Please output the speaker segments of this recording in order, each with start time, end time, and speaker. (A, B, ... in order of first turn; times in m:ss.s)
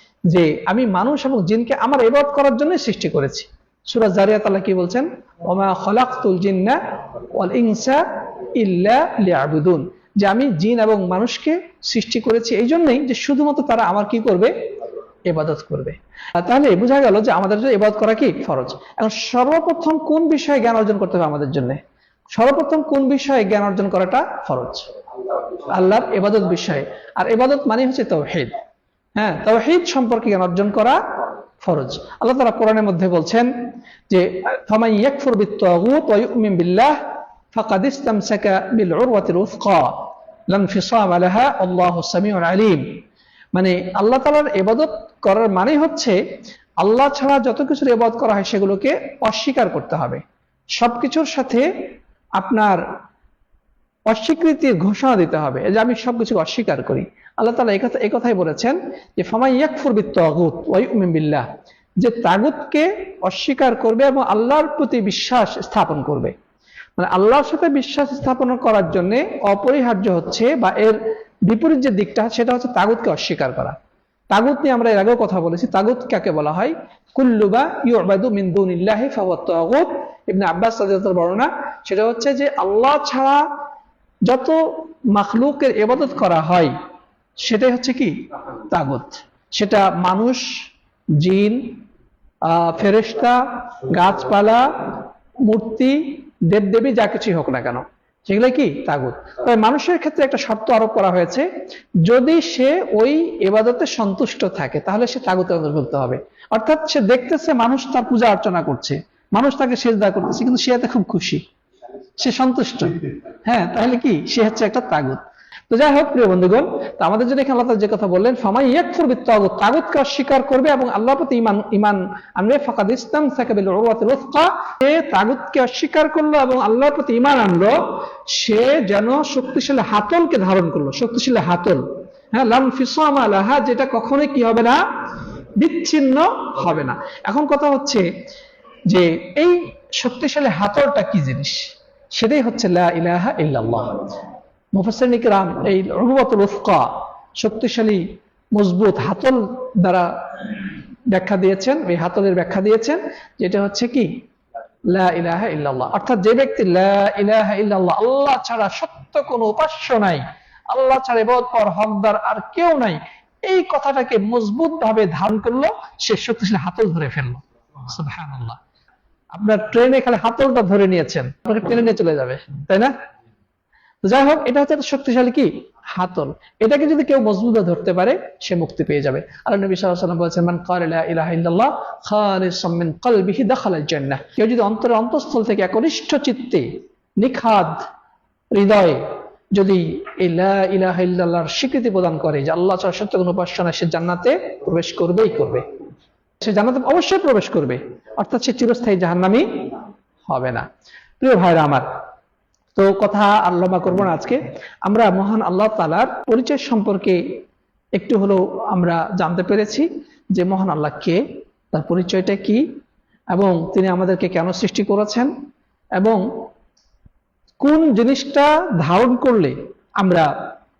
0:00.3-0:14.5 A
0:15.3-0:21.8 A
0:22.3-0:24.9 A
0:25.6-0:28.6 A
0:29.2-0:31.0 A
0:31.6-0:33.5 A
0:34.1-0:37.0 A
0:37.5-0:42.9 A
0:43.5-0:46.2 A
0:46.8-0:50.2 A
0:50.8-0:51.7 A
0:52.4-0:52.8 A
0:54.1-1:01.5 A
1:02.0-1:06.3 A
1:07.0-1:13.8 A
1:14.3-1:23.4 A
1:24.3-1:26.7 A
1:27.4-1:30.5 A
1:31.2-1:31.8 A
1:32.4-1:41.5 A
1:42.0-1:51.4 A
1:52.2-2:07.8 A
2:08.3-2:14.8 A
2:15.6-2:18.1 A
2:18.9-2:28.0 A
2:28.5-2:34.1 A
2:34.9-2:48.6 A
2:49.3-2:52.9 A
2:54.0-3:07.8 A
3:08.5-3:09.0 A
3:09.5-3:15.6 A
3:16.4-3:20.7 A
3:21.2-3:21.9 A
3:22.8-3:27.4 A
3:28.0-3:32.6 A
3:33.3-3:35.3 A
3:36.0-3:36.2 A
3:37.6-3:40.3 A